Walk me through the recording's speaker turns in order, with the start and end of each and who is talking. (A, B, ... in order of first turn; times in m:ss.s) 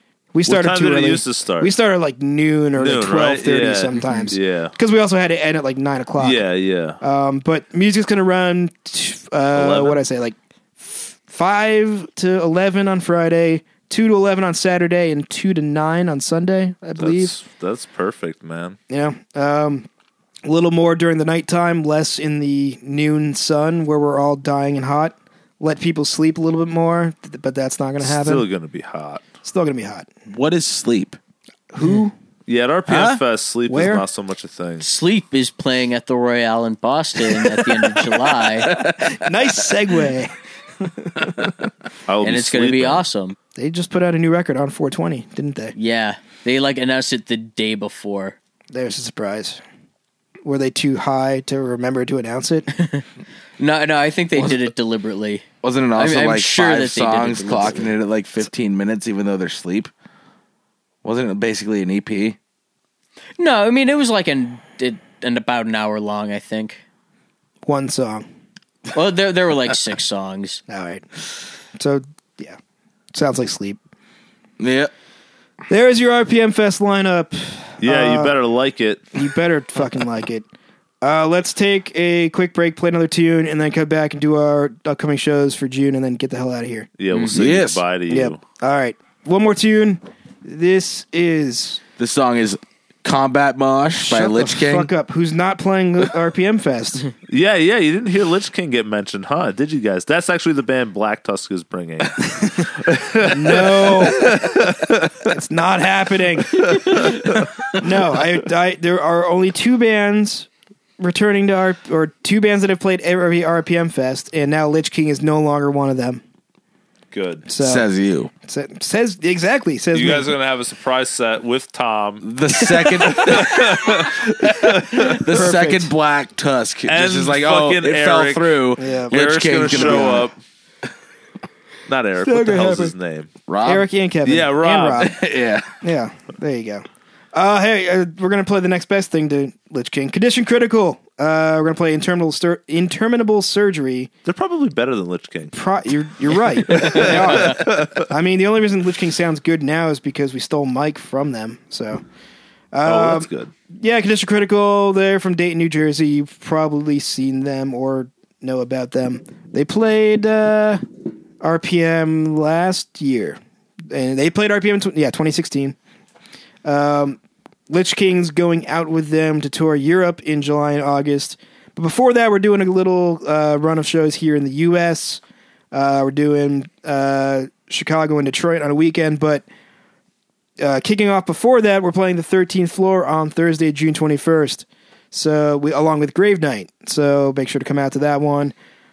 0:00.3-0:06.4 A
0:00.4-0:01.7 B
0:02.8-0:04.7 B
0:06.2-0:07.0 B
0:07.0-0:17.3 A
0:09.5-0:10.0 B
0:17.0-0:18.8 B
0:18.9-0:19.9 A
0:20.4-0:28.4 A
0:28.0-0:29.2 B
0:29.4-0:30.1 A
0:30.3-0:31.2 C
0:31.7-0:32.1 A
0:32.5-0:34.8 B
0:32.9-0:33.2 C
0:33.7-0:34.0 A
0:34.8-0:38.8 D
0:38.7-0:39.2 C
0:38.9-0:41.3 A
0:42.1-0:43.0 B
0:42.2-0:43.4 D
0:43.6-0:45.7 A
0:45.7-0:48.4 D
0:48.7-0:49.6 A
0:50.4-0:52.7 A
0:52.8-0:53.0 D
0:53.6-0:57.9 D
0:54.4-0:54.6 C
0:55.6-0:59.9 C
1:01.0-1:02.4 C
1:03.4-1:06.8 D
1:07.6-1:08.2 A
1:08.9-1:10.6 D
1:10.7-1:11.0 A
1:11.8-1:12.6 A
1:13.1-1:13.8 A
1:14.6-1:14.9 C
1:15.7-1:18.3 A
1:17.8-1:19.0 B
1:19.1-1:20.4 A
1:21.0-1:26.9 A
1:27.0-1:28.4 B
1:27.3-1:27.8 C
1:28.1-1:31.8 A
1:32.0-1:34.9 C
1:34.0-1:37.1 A
1:37.3-1:45.3 B
1:43.2-1:44.6 A
1:45.2-1:50.5 A
1:46.6-1:47.5 B
1:51.0-1:56.2 A
1:57.1-1:57.4 B
1:57.5-1:57.8 A
1:57.6-1:58.3 C
1:58.4-2:00.3 A
1:59.9-2:05.2 B
2:02.2-2:10.3 C
2:05.1-2:05.9 A
2:06.9-2:10.3 B
2:08.8-2:10.2 A
2:11.9-2:13.3 B
2:12.2-2:12.9 A
2:13.5-2:13.9 C
2:13.6-2:15.1 A
2:14.2-2:15.1 B
2:15.0-2:15.7 C
2:15.8-2:24.1 A
2:24.2-2:25.5 B
2:25.5-2:32.0 A
2:26.7-2:28.0 B
2:32.7-2:40.8 A
2:32.8-2:33.5 B
2:41.4-2:45.8 A
2:46.6-2:47.2 A
2:47.7-2:55.2 A
2:55.7-2:59.4 A
3:00.6-3:08.5 A